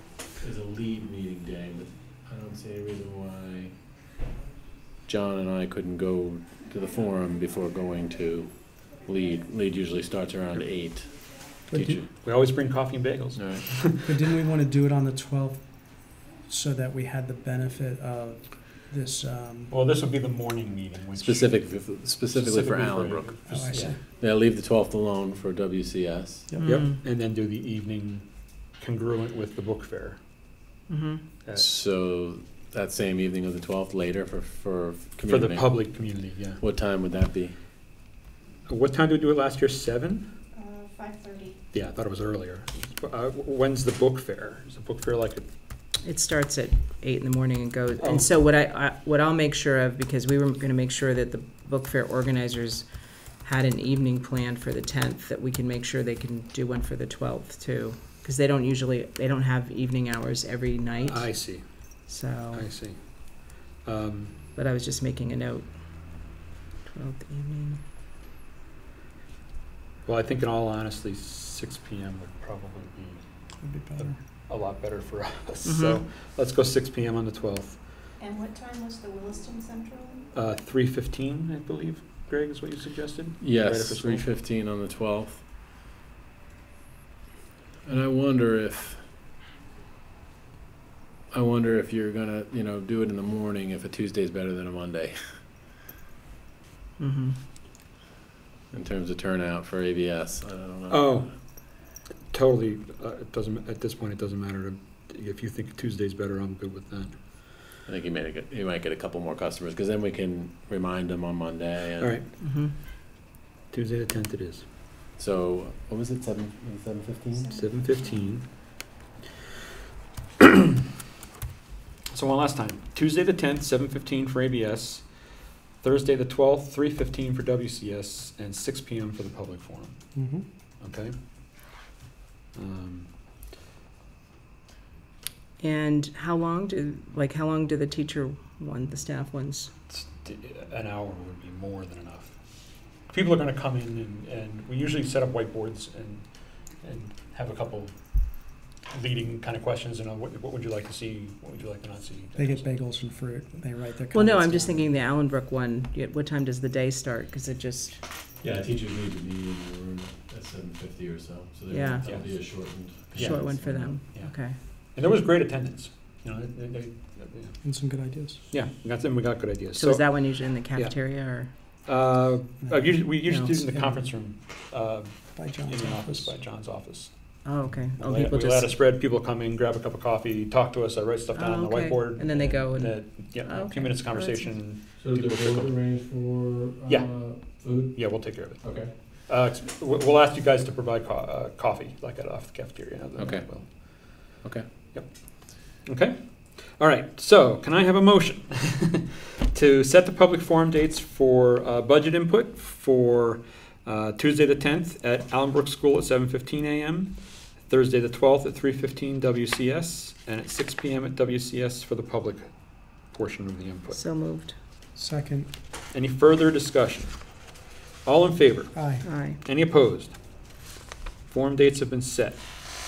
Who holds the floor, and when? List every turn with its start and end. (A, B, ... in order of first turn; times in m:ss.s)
0:00.4-0:03.7 A
0:05.1-0:11.1 A
0:11.7-0:12.0 B
0:11.7-0:12.1 A
0:12.2-0:14.1 C
0:13.4-0:13.6 A
0:14.0-0:19.7 B
0:19.7-0:21.6 C
0:21.2-0:26.5 A
0:22.3-0:23.9 C
0:23.5-0:24.0 B
0:26.5-0:26.8 B
0:26.6-0:27.0 D
0:26.6-0:28.3 C
0:28.8-0:30.2 C
0:30.9-0:31.2 D
0:31.5-0:37.6 A
0:35.3-0:36.6 C
0:38.7-0:40.3 C
0:40.6-0:41.6 E
0:41.7-0:45.5 C
0:46.0-0:52.9 D
0:48.0-0:48.3 C
0:53.4-1:01.3 D
1:01.0-1:01.6 C
1:02.1-1:02.7 D
1:02.5-1:04.4 C
1:04.6-1:06.1 D
1:06.8-1:07.8 D
1:10.1-1:13.2 C
1:13.6-1:14.2 B
1:14.0-1:17.8 C
1:15.6-1:16.0 D
1:18.2-1:20.2 E
1:20.3-1:24.2 C
1:23.4-1:25.4 A
1:27.8-1:29.0 A
1:31.3-1:35.2 A
1:37.0-1:37.4 D
1:38.7-1:41.2 A
1:40.9-1:41.3 C
1:41.8-1:47.2 C
1:47.9-1:52.2 A
1:52.0-1:52.3 C
1:52.4-1:52.7 D
1:53.7-1:54.7 C
1:55.2-1:57.6 A
1:57.5-1:58.5 C
2:02.1-2:05.1 C
2:05.8-2:10.0 C
2:10.2-2:10.4 B
2:10.8-2:11.1 C
2:12.6-2:13.1 C
2:15.6-2:19.7 D
2:19.9-2:22.3 C
2:23.1-2:26.2 C
2:26.8-2:28.0 C
2:28.9-2:32.7 C
2:32.4-2:35.0 B
2:34.1-2:38.0 D
2:38.4-2:44.0 A
2:41.7-2:42.0 D
2:42.0-2:44.4 C
2:43.2-2:44.6 D
2:45.0-2:47.6 C
2:47.6-2:48.4 B
2:48.5-2:51.0 C
2:49.8-2:51.5 D
2:51.9-3:05.8 C
2:52.6-2:53.0 B
2:53.2-2:54.0 D
2:55.4-2:56.3 B
2:57.4-2:58.8 D
3:01.3-3:04.5 D
3:05.0-3:08.9 A
3:06.9-3:13.7 C
3:13.2-3:14.7 A
3:14.9-3:27.1 C
3:27.7-3:32.5 C
3:33.0-3:34.0 C
3:33.9-3:34.6 D
3:35.0-3:35.5 B
3:35.9-3:37.1 C
3:38.0-3:38.8 C
3:38.7-3:39.1 B
3:39.0-3:39.4 D
3:39.4-3:40.2 C
3:41.3-3:42.4 C